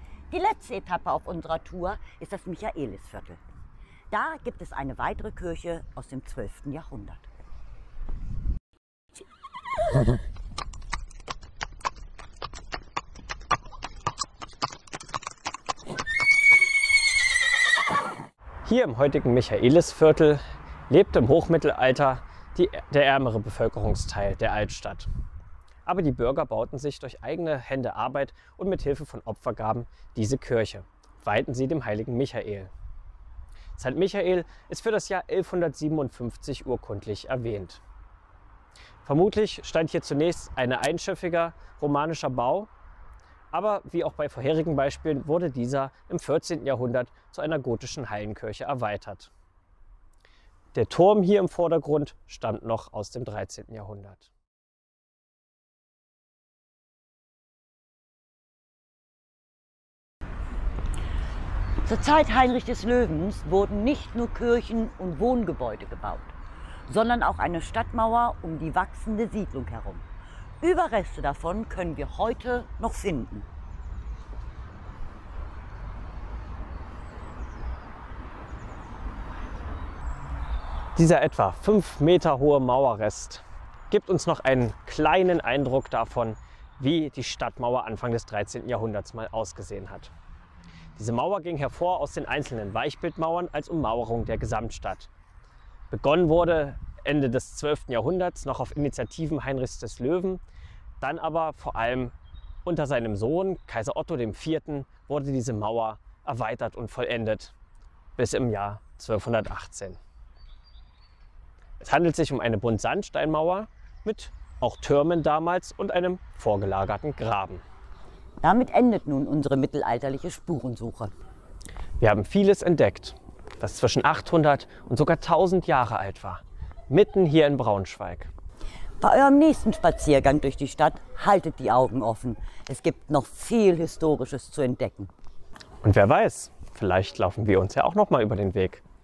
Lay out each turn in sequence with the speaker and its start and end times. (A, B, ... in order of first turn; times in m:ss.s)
0:00.3-0:03.4 A
0:04.1-0:07.3 A
0:18.7-0:20.4 B
0:20.9-0:25.1 B
0:25.9-0:32.7 B
0:33.8-0:37.8 B
0:39.0-0:42.7 B
0:43.5-0:49.3 B
0:50.7-0:54.3 B
1:01.8-1:06.3 A
1:06.9-1:10.0 A
1:10.6-1:13.5 A
1:21.0-1:30.1 B
1:31.0-1:35.1 B
1:35.9-1:40.4 B
1:41.0-1:42.1 B
1:42.6-1:47.5 B
1:48.2-1:50.0 B
1:51.8-1:57.6 B
1:58.4-2:01.1 A
2:02.0-2:08.3 B
2:09.0-2:15.1 A
2:15.8-2:18.8 B